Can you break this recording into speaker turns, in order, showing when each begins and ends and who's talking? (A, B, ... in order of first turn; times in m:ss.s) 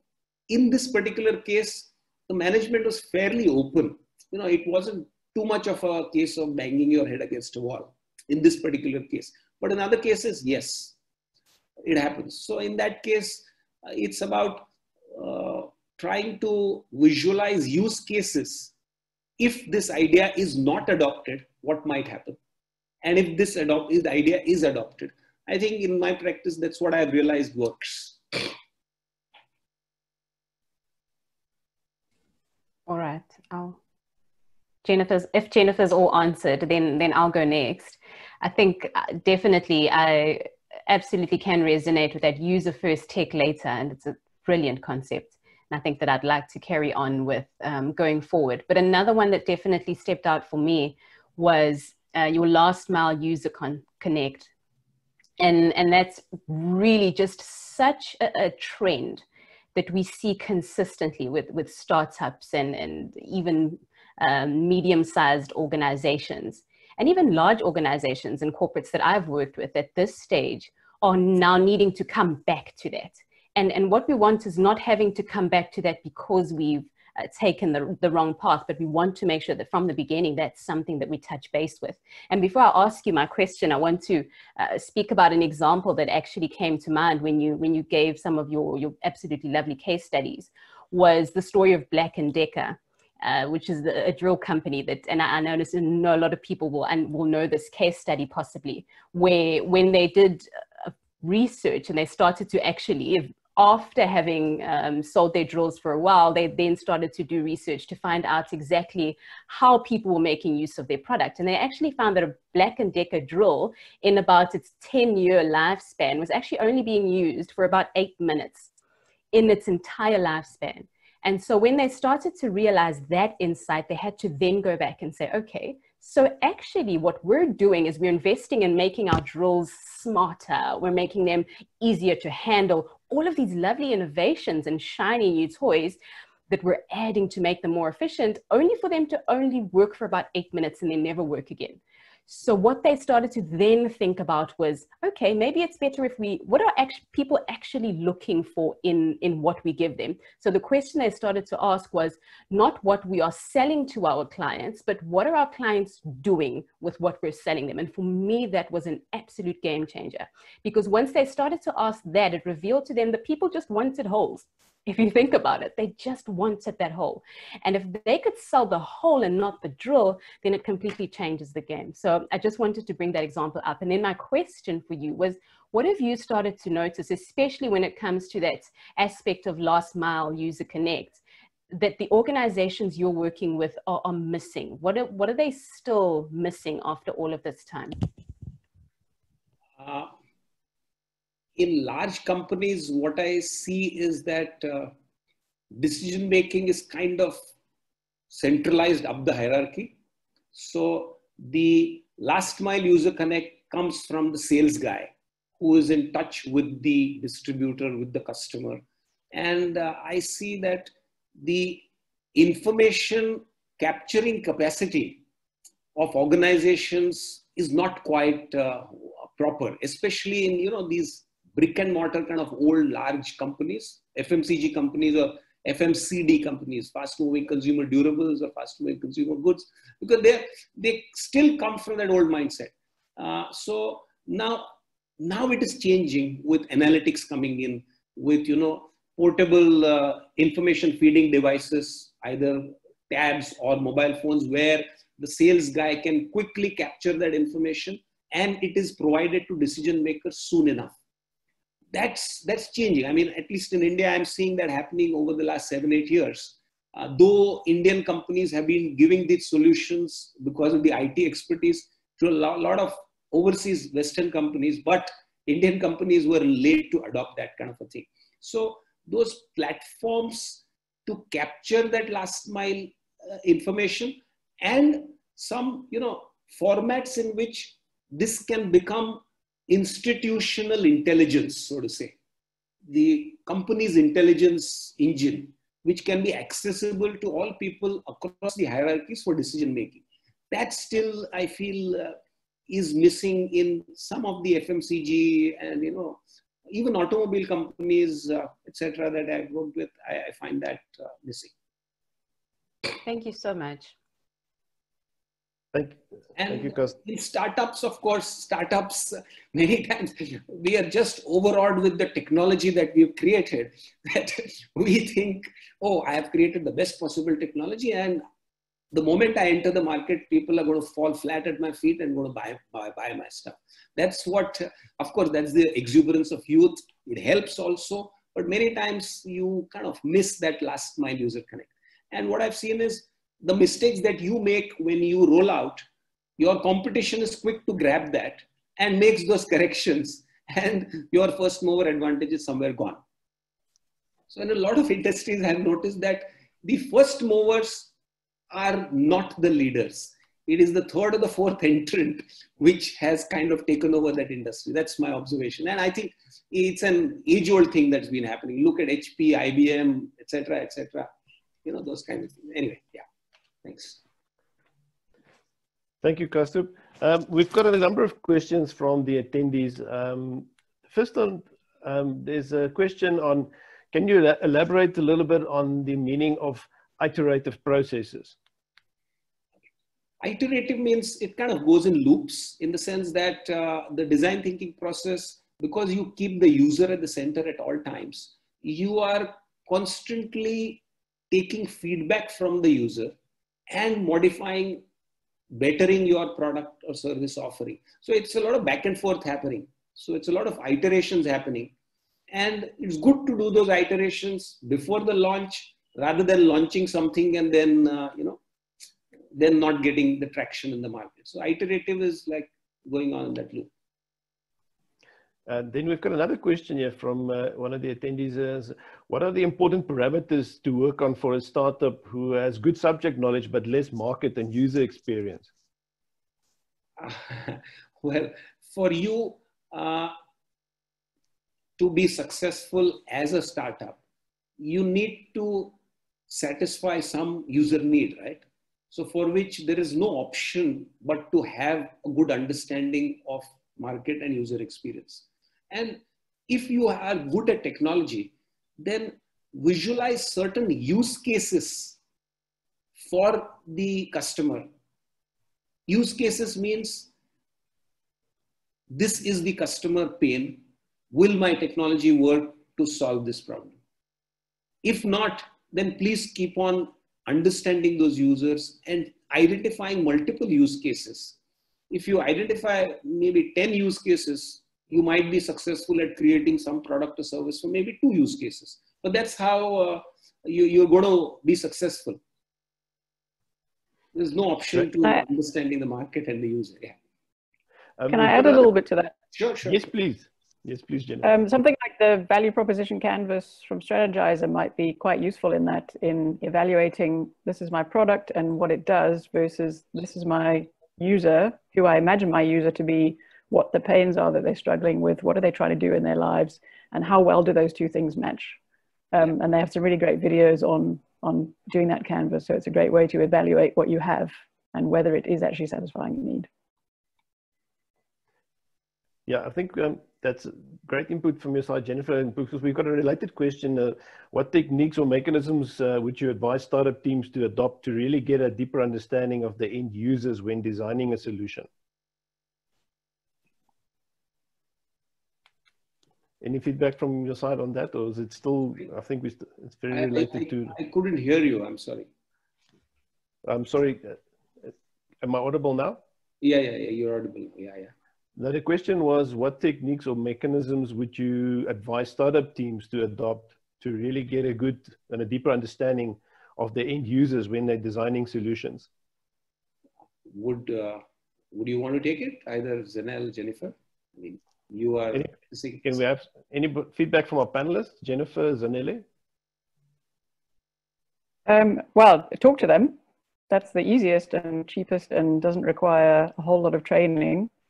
0:00.5-0:10.9 A
0:11.8-0:18.7 A
0:19.4-0:22.4 A
0:23.0-0:28.5 A
0:32.9-0:33.8 B
0:34.8-0:54.5 B
0:55.4-0:59.2 B
0:59.7-1:58.7 B
1:59.3-2:16.0 B
2:16.5-3:08.0 B
3:09.8-3:10.1 A
3:11.6-3:14.9 A
3:15.7-3:17.4 A
3:18.3-3:20.0 A
3:20.5-3:35.2 A
3:35.9-4:10.9 A
4:11.9-4:42.1 A
4:42.9-4:52.2 A
4:52.7-5:01.5 A
5:03.0-5:03.9 B
5:05.7-5:06.9 C
5:06.4-5:18.2 A
5:18.9-5:35.8 A
5:36.4-5:43.0 A
5:44.3-5:47.9 A
5:48.5-6:01.1 A
6:01.6-6:03.0 A
6:03.6-6:04.0 A
6:06.0-6:18.4 C
6:20.2-6:33.1 A
6:33.7-6:34.8 A
6:35.5-6:41.7 A
6:42.3-6:48.4 A
6:49.3-6:53.7 A
6:55.5-7:05.5 C
7:07.0-7:10.1 A
7:11.8-7:14.0 A
7:14.6-7:15.8 A
7:16.3-7:32.0 A
7:33.0-7:34.7 A
7:35.9-7:37.1 A
7:38.9-7:43.7 A
7:44.8-7:51.4 A
7:51.9-8:02.2 A
8:04.1-8:07.0 A
8:08.0-8:08.7 C
8:08.1-8:09.1 D
8:09.3-8:09.8 A
8:09.6-8:11.3 C
8:11.2-8:28.6 D
8:29.1-8:36.5 D
8:39.3-8:51.7 C
8:56.4-9:00.7 C
8:59.9-9:02.1 A
9:03.4-9:06.0 C
9:06.4-9:07.9 A
9:08.4-9:18.9 C
9:20.3-9:25.9 A
9:25.8-9:29.0 C
9:31.4-9:33.0 D
9:33.5-9:37.5 D